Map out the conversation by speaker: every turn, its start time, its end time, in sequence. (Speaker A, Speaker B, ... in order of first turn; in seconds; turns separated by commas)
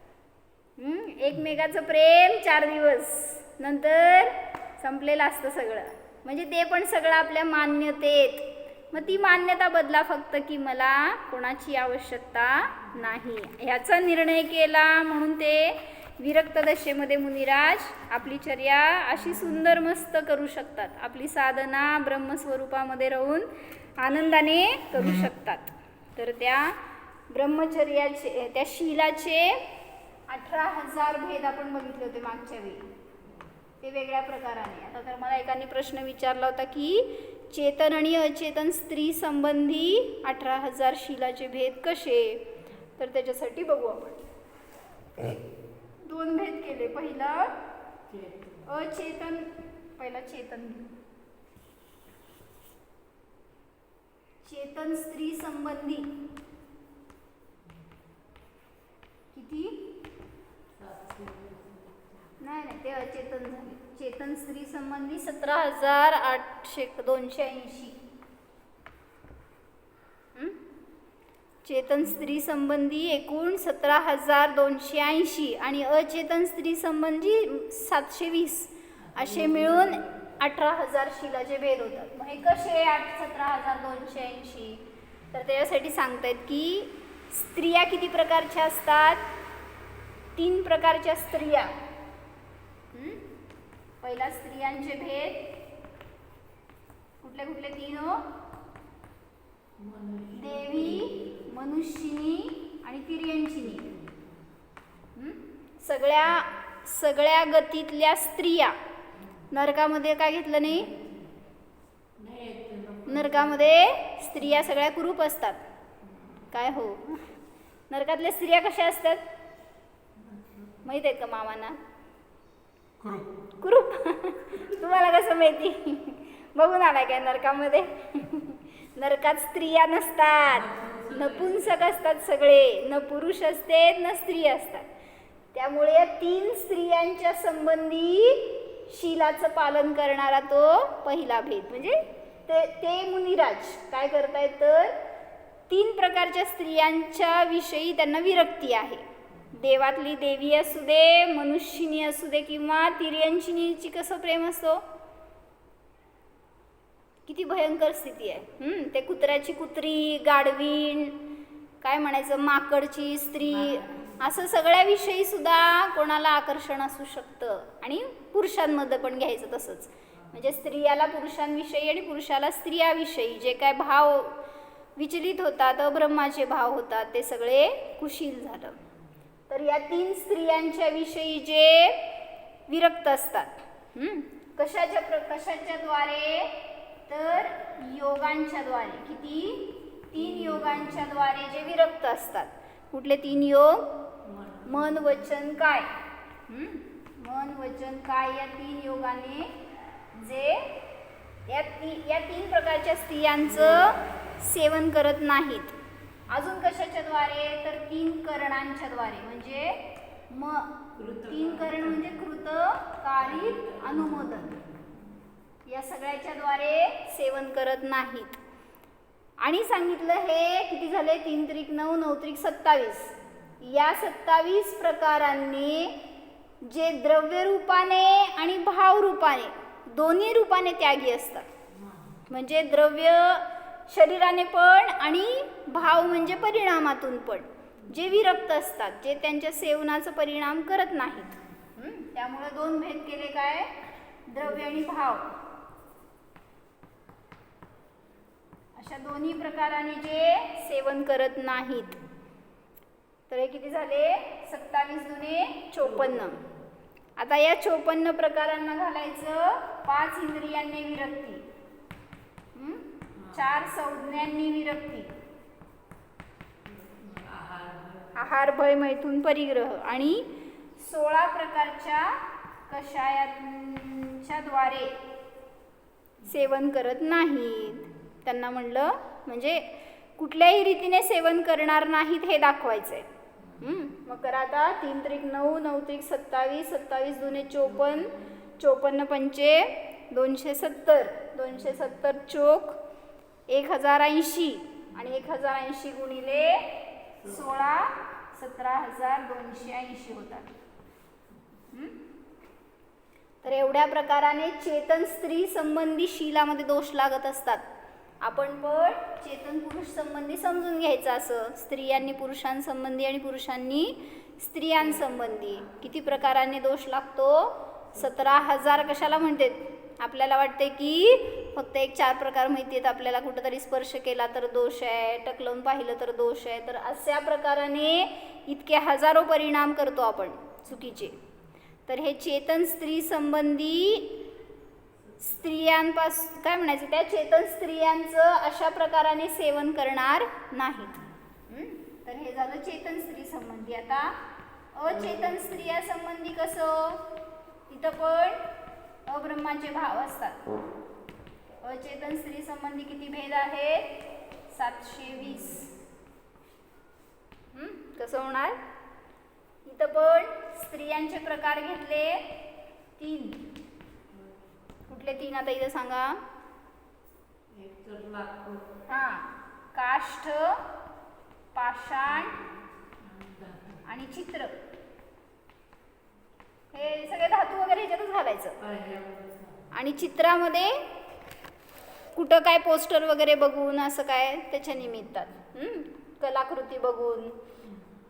Speaker A: 0.8-26.8, Speaker A: 27.3-29.6, Speaker A: 30.3-32.9, Speaker A: 33.8-44.2, Speaker A: 46.0-47.5, Speaker B: 48.1-48.7, Speaker A: 48.7-50.9, Speaker A: 54.4-56.2, Speaker A: 59.3-59.8, Speaker B: 60.7-62.4, Speaker A: 62.4-68.0, Speaker A: 70.3-70.6, Speaker A: 71.6-89.3, Speaker B: 79.0-80.5, Speaker A: 90.4-91.7, Speaker A: 92.9-93.2, Speaker A: 94.0-95.5, Speaker A: 97.2-98.3, Speaker B: 99.8-101.5, Speaker A: 100.4-103.9, Speaker B: 103.6-104.4, Speaker A: 105.2-108.8, Speaker B: 109.2-109.5, Speaker A: 109.5-110.9, Speaker B: 110.7-111.3, Speaker B: 112.2-113.8, Speaker A: 113.1-115.6, Speaker B: 114.4-114.8, Speaker B: 116.0-116.5, Speaker A: 116.5-117.3, Speaker A: 117.9-119.3, Speaker B: 120.2-120.9, Speaker A: 120.8-121.8, Speaker A: 123.6-134.9, Speaker B: 130.4-132.0, Speaker A: 135.6-145.0, Speaker B: 141.8-142.1, Speaker A: 145.7-154.8, Speaker A: 157.3-161.2, Speaker A: 161.8-174.4, Speaker B: 163.4-164.4, Speaker B: 170.1-170.6, Speaker A: 175.0-178.8, Speaker A: 179.5-182.1, Speaker A: 182.7-193.9, Speaker B: 190.2-191.1, Speaker B: 194.2-195.3, Speaker A: 194.7-195.9, Speaker A: 196.5-200.8, Speaker A: 201.5-205.8, Speaker B: 203.4-204.5, Speaker A: 206.3-214.5, Speaker B: 210.9-212.3, Speaker B: 213.2-215.0, Speaker A: 215.7-218.4, Speaker A: 219.4-226.0, Speaker A: 226.6-231.5, Speaker B: 231.7-232.3, Speaker A: 232.3-243.7, Speaker B: 237.8-238.3, Speaker A: 244.3-245.3, Speaker A: 248.8-252.0, Speaker A: 253.3-256.4, Speaker B: 255.8-256.6, Speaker A: 257.2-261.4, Speaker A: 262.6-265.1, Speaker B: 263.2-263.5, Speaker B: 266.6-268.4, Speaker A: 268.2-275.0, Speaker B: 276.2-276.8, Speaker A: 276.3-283.1, Speaker B: 283.4-283.9, Speaker A: 283.6-292.8, Speaker B: 287.3-288.3, Speaker B: 291.6-292.0, Speaker A: 293.5-296.7, Speaker B: 294.9-295.4, Speaker B: 297.2-297.7, Speaker A: 297.2-300.5, Speaker A: 301.7-302.0, Speaker A: 303.4-307.6, Speaker A: 308.2-331.2, Speaker B: 314.8-315.9, Speaker B: 317.9-319.3, Speaker B: 330.7-331.3, Speaker A: 331.9-334.2, Speaker B: 335.0-335.8, Speaker A: 335.2-344.2, Speaker B: 340.8-341.2, Speaker A: 344.7-347.1, Speaker B: 344.9-345.7, Speaker A: 347.7-348.4, Speaker A: 349.1-350.4, Speaker A: 351.6-353.9, Speaker A: 354.5-355.7, Speaker B: 355.1-355.7, Speaker A: 357.5-358.6, Speaker A: 359.6-362.4, Speaker A: 363.0-363.5, Speaker B: 364.1-364.5, Speaker A: 364.9-366.2, Speaker B: 367.5-368.8, Speaker A: 368.9-370.6, Speaker A: 371.5-372.4, Speaker B: 372.1-373.9, Speaker A: 373.9-374.6, Speaker A: 376.7-378.6, Speaker B: 378.6-379.9, Speaker A: 379.7-380.8, Speaker A: 382.1-387.4, Speaker B: 384.9-385.4, Speaker B: 387.6-387.9